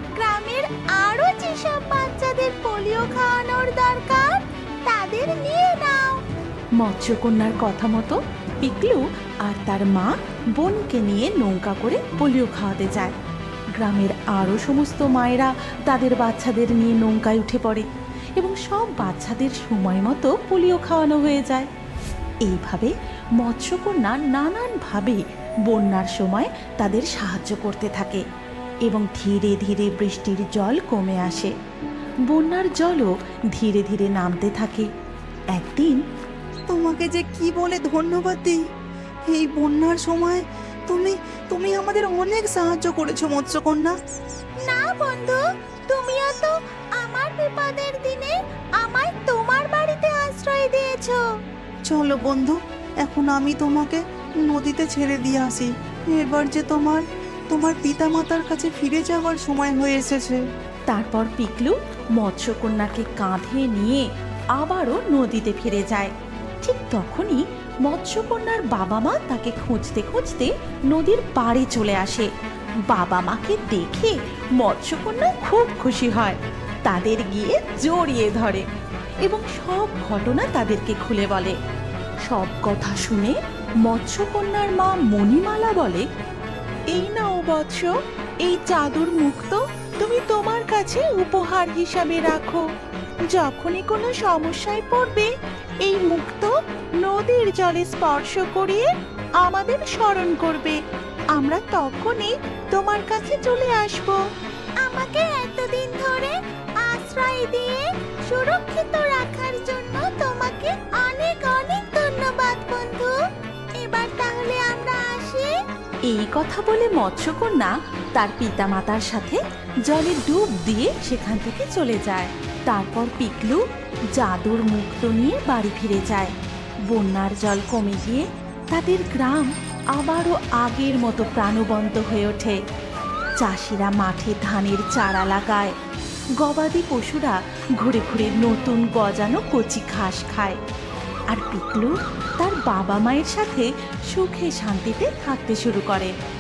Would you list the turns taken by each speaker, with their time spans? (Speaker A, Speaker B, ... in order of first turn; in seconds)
Speaker A: 0.2-4.2, 4.9-6.1, 44.6-45.4, 45.9-46.5, 47.1-51.1, 102.8-104.1, 104.8-107.8, 108.3-113.1, 113.8-115.5
Speaker B: 6.8-13.2, 13.8-21.7, 22.4-28.2, 28.9-31.5, 32.3-34.9, 35.5-36.0, 60.9-72.3, 72.9-78.7, 79.2-81.6, 82.3-86.1, 86.9-87.9, 88.5-92.6, 93.3-95.2, 95.9-96.4, 97.0-98.6, 99.5-100.7, 101.4-102.2, 116.1-123.6, 124.2-126.3, 126.9-132.6, 133.4-135.8, 136.4-140.6, 141.3-146.2
Speaker C: 36.7-38.6, 39.3-44.0, 51.9-60.4